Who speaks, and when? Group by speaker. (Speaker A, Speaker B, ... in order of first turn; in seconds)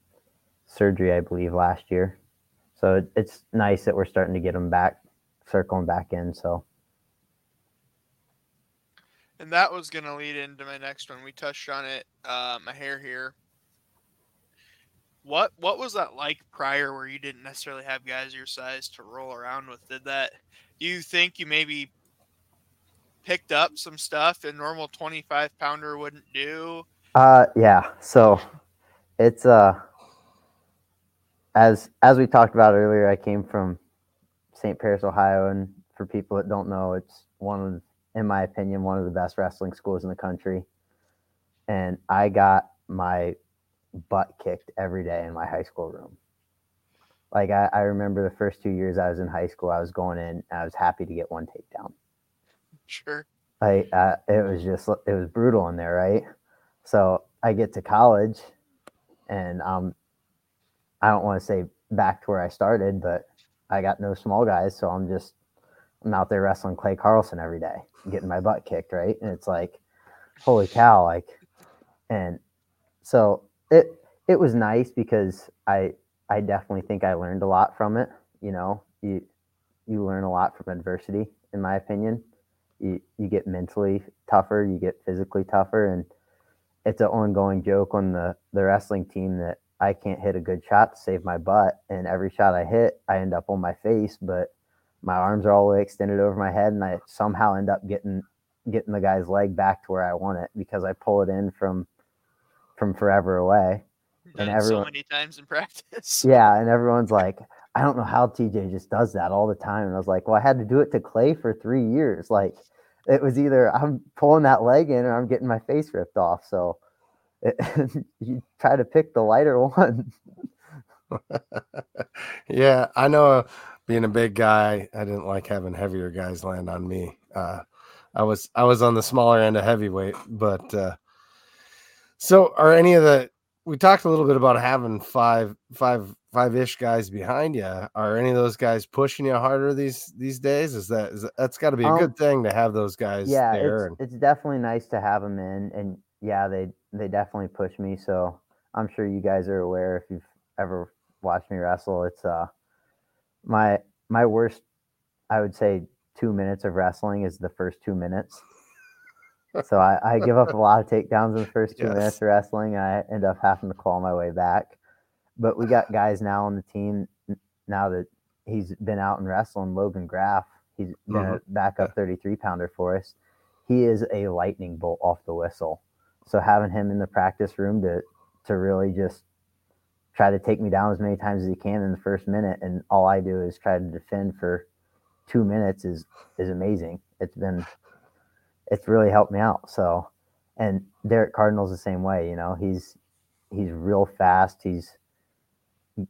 Speaker A: 0.7-2.2, 2.8-6.6, 27.2-28.4, 29.2-29.8, 31.6-33.8, 34.5-40.7, 41.7-43.4, 44.0-46.2, 47.3-51.9, 53.6-56.2, 56.8-58.5, 59.3-59.9, 61.0-65.3, 66.0-69.8, 70.4-71.4, 72.1-72.4, 73.0-79.2, 79.9-82.2, 82.8-86.1, 86.8-94.5, 95.0-101.9, 102.8-103.8, 104.4-104.9, 106.2-116.8, 117.4-120.1, 141.8-142.1, 143.2-152.5, 153.4-154.6, 155.3-158.4, 159.6-164.8, 165.4-173.2, 173.7-179.2, 180.1-184.7, 185.3-187.7, 188.7-193.0, 193.5-195.0
Speaker B: 9.4-13.3, 15.2-21.9, 23.2-26.9, 52.9-53.3, 104.3-106.3
Speaker C: 121.1-127.6, 128.1-131.0, 132.2-144.0, 161.8-162.2, 171.1-171.9